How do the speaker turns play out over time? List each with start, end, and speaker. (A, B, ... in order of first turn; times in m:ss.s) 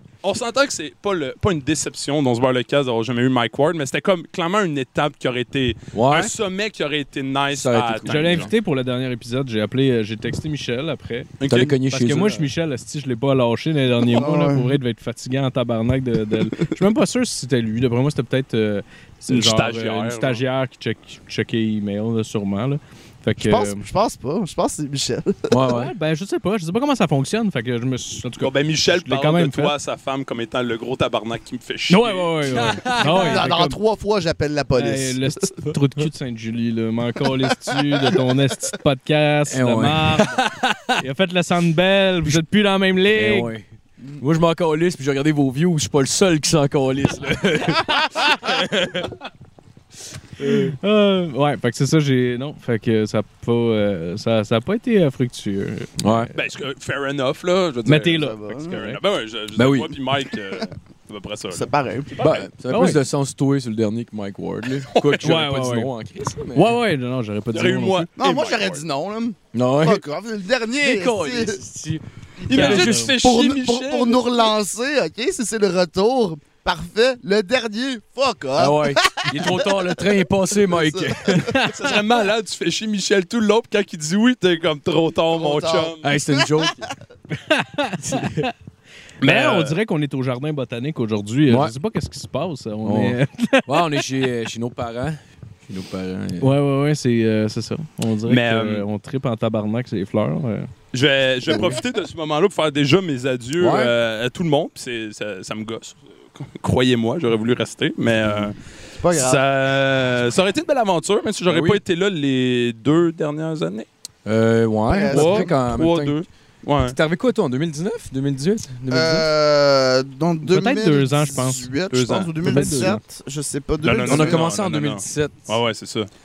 0:00.2-0:08.5 A
0:05.9-0:06.3 B
0:07.5-0:08.5 B
0:08.0-0:11.3 C
0:11.4-0:11.7 A
0:11.5-0:12.5 B
0:11.9-0:23.8 C
0:14.0-0:14.8 D
0:19.3-0:20.4 A
0:23.4-0:25.5 D
0:25.5-0:25.9 B
0:25.7-0:29.7 C
0:28.4-0:32.9 A
0:31.9-0:33.8 C
0:32.4-0:33.4 B
0:33.0-0:35.4 D
0:34.8-0:40.4 C
0:39.5-0:41.0 B
0:41.0-0:43.5 C
0:43.1-0:43.7 B
0:44.2-0:49.1 B
0:50.4-0:50.7 B
0:50.5-0:56.3 C
0:56.0-0:56.3 B
0:56.3-1:02.5 A
0:57.8-0:59.0 C
0:58.1-0:58.8 D
0:59.6-1:00.0 B
1:01.5-1:02.1 D
1:02.2-1:06.8 B
1:02.7-1:03.0 C
1:04.9-1:05.2 A
1:05.2-1:05.9 C
1:06.5-1:08.1 C
1:07.5-1:08.8 A
1:08.2-1:11.6 D
1:09.5-1:10.0 B
1:10.8-1:13.1 B
1:12.5-1:14.5 A
1:12.5-1:13.1 C
1:12.5-1:21.4 D
1:18.6-1:21.5 B
1:21.3-1:21.9 C
1:21.7-1:26.0 A
1:25.3-1:26.5 D
1:26.0-1:26.9 B
1:27.3-1:28.5 C
1:28.0-1:28.5 B
1:29.2-1:29.8 A
1:29.2-1:34.0 C
1:31.5-1:31.7 B
1:32.8-1:36.5 B
1:36.4-1:40.7 C
1:38.3-1:38.8 A
1:40.9-1:48.6 A
1:41.5-1:41.8 D
1:43.6-1:43.9 B
1:49.0-1:49.4 D
1:49.1-1:53.9 A
1:51.5-1:51.8 B
1:54.2-1:56.2 B
1:54.9-1:55.5 D
1:55.1-1:57.0 A
1:56.8-1:59.3 B
1:58.9-2:04.5 D
2:00.4-2:01.7 C
2:01.9-2:02.3 A
2:02.4-2:03.0 C
2:02.4-2:02.9 B
2:03.8-2:06.1 A
2:04.0-2:05.5 B